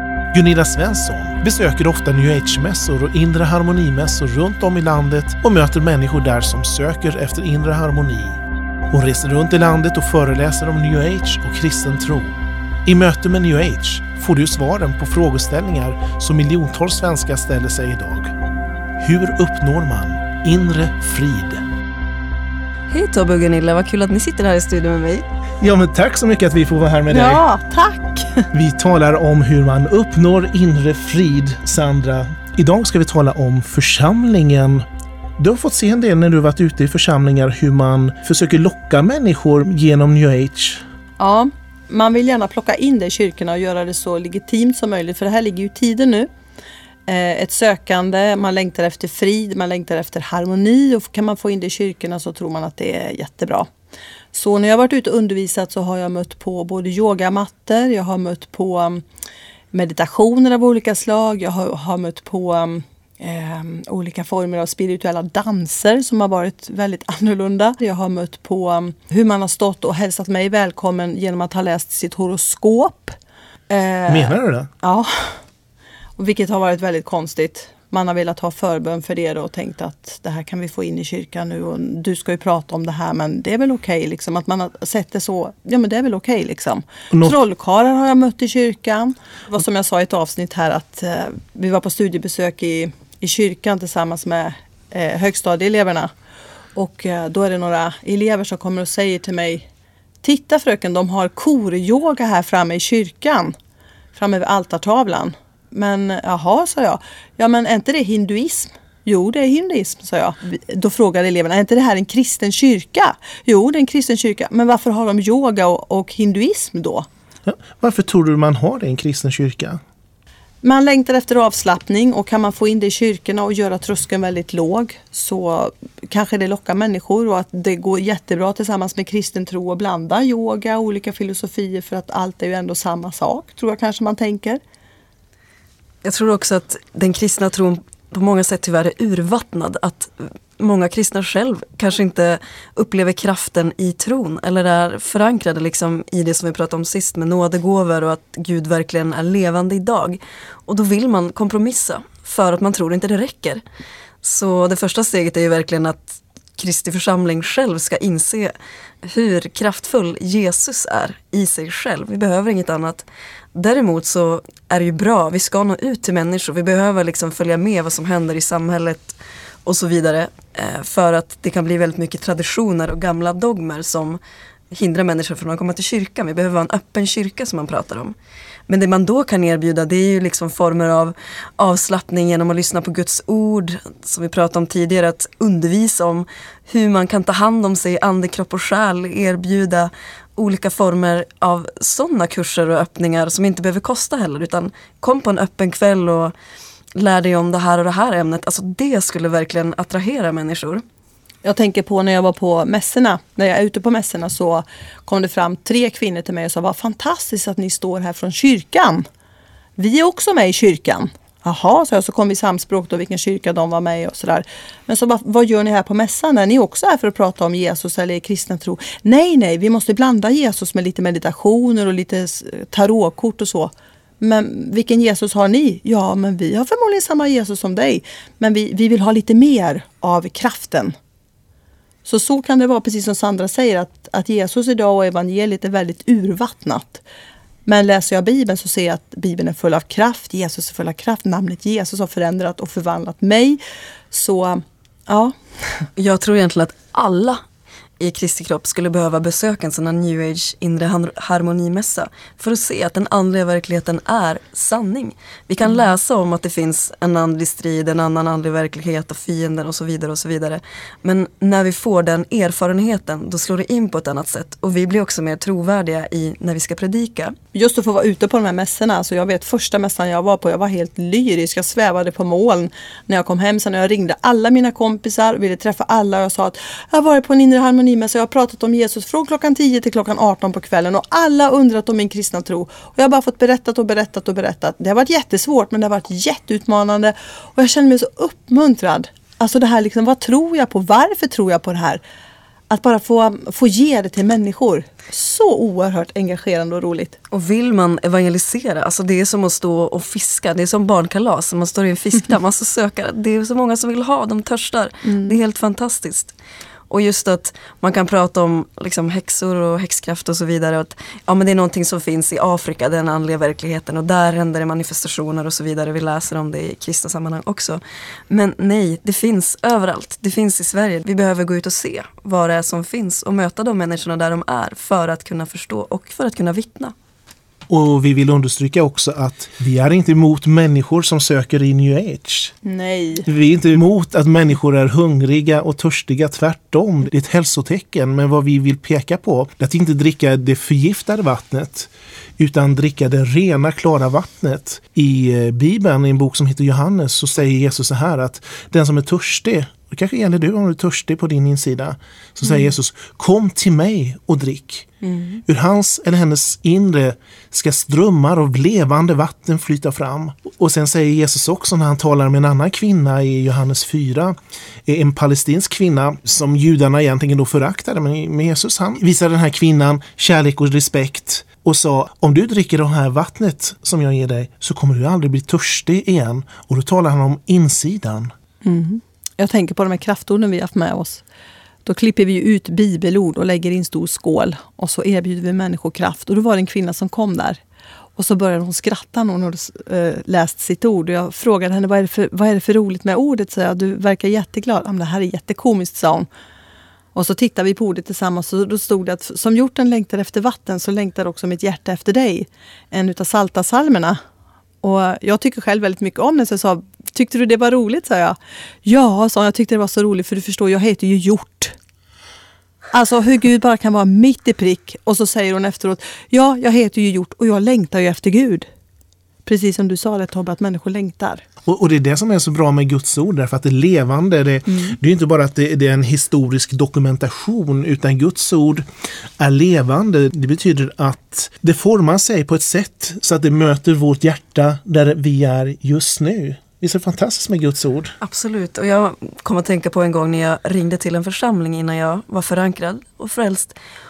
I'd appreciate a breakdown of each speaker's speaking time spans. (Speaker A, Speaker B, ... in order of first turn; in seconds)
Speaker A: 0.3-8.4, 8.9-18.3, 19.0-21.6, 25.6-27.4, 28.5-34.8, 35.4-40.8, 74.1-74.7, 87.1-87.4, 117.5-119.8, 327.7-332.5, 333.2-354.9, 355.4-378.3, 421.6-428.8, 429.4-438.1
Speaker B: 22.9-25.2, 136.0-153.6, 154.2-158.5, 159.0-174.2, 174.7-178.1, 178.7-196.3, 196.9-200.8, 246.0-247.4, 248.0-267.3, 297.3-306.3, 306.9-326.9, 438.2-443.8
Speaker C: 27.1-28.5, 41.2-46.3, 47.1-53.7, 54.3-59.0, 59.7-73.1, 73.7-75.3, 76.2-96.1, 96.7-99.7, 100.2-103.5, 104.1-117.1, 120.6-134.6, 201.4-209.0, 209.8-230.9, 232.0-237.0, 237.7-243.6, 244.1-245.3, 267.5-292.0, 292.7-297.2, 305.0-305.3, 332.6-333.2, 378.6-381.2, 381.8-387.6, 388.2-396.3, 397.1-404.2, 404.8-411.7, 412.9-418.7, 419.4-421.4